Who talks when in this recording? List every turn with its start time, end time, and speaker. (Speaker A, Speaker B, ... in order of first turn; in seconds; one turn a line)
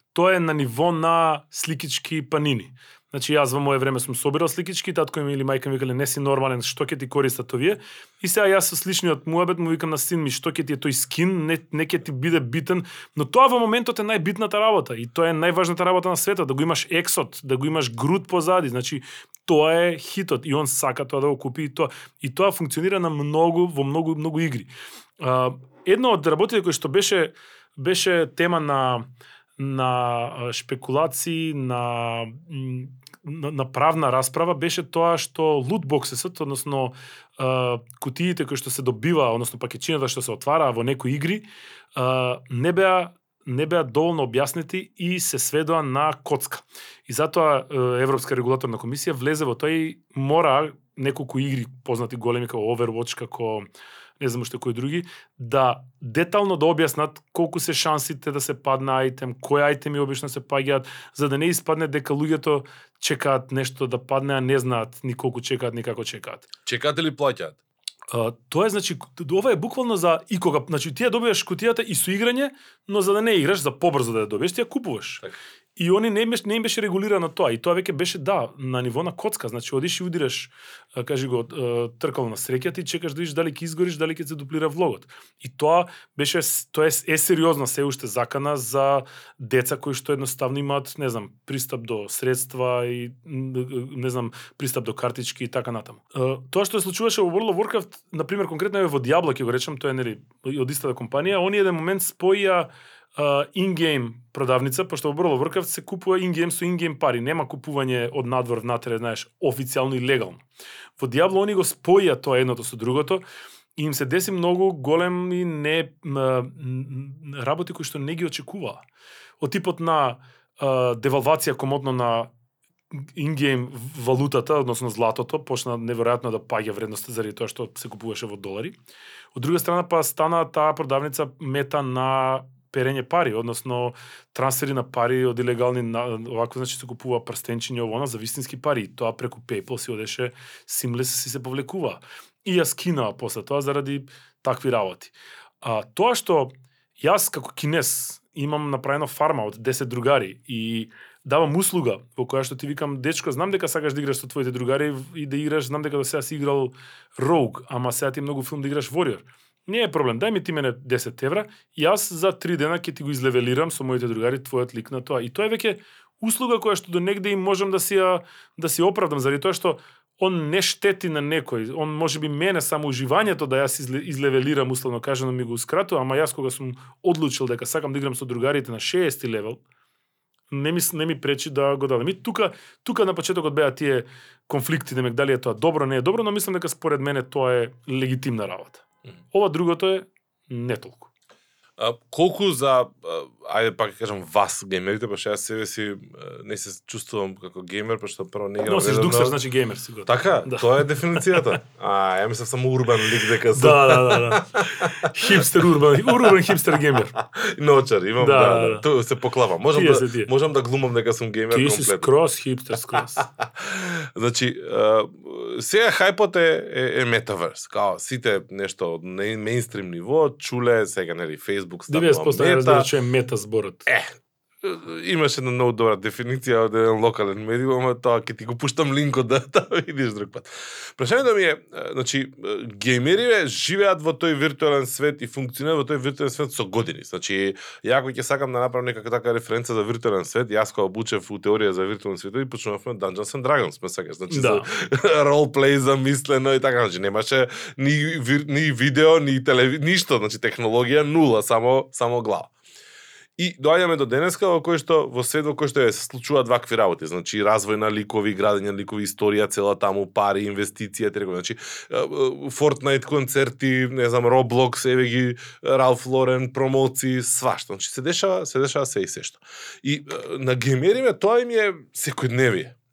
Speaker A: 0.1-29.1
Speaker A: 29.6-53.7
Speaker A: 54.2-66.5
Speaker B: 66.7-67.6
Speaker A: 68.1-75.2
Speaker A: 75.8-110.4
Speaker A: 111.0-113.2
Speaker A: 113.8-118.8
Speaker A: 119.4-122.3
Speaker A: 122.9-128.8
Speaker A: 129.3-179.6
Speaker A: 180.5-191.1
Speaker B: 191.8-199.4
Speaker A: 198.6-201.4
Speaker B: 200.1-205.8
Speaker A: 203.5-207.2
Speaker B: 207.2-212.1
Speaker A: 208.2-208.9
Speaker A: 209.7-210.3
Speaker A: 211.5-213.2
Speaker B: 212.9-222.9
Speaker A: 221.9-223.9
Speaker B: 223.9-252.5
Speaker A: 244.3-244.7
Speaker B: 253.4-272.8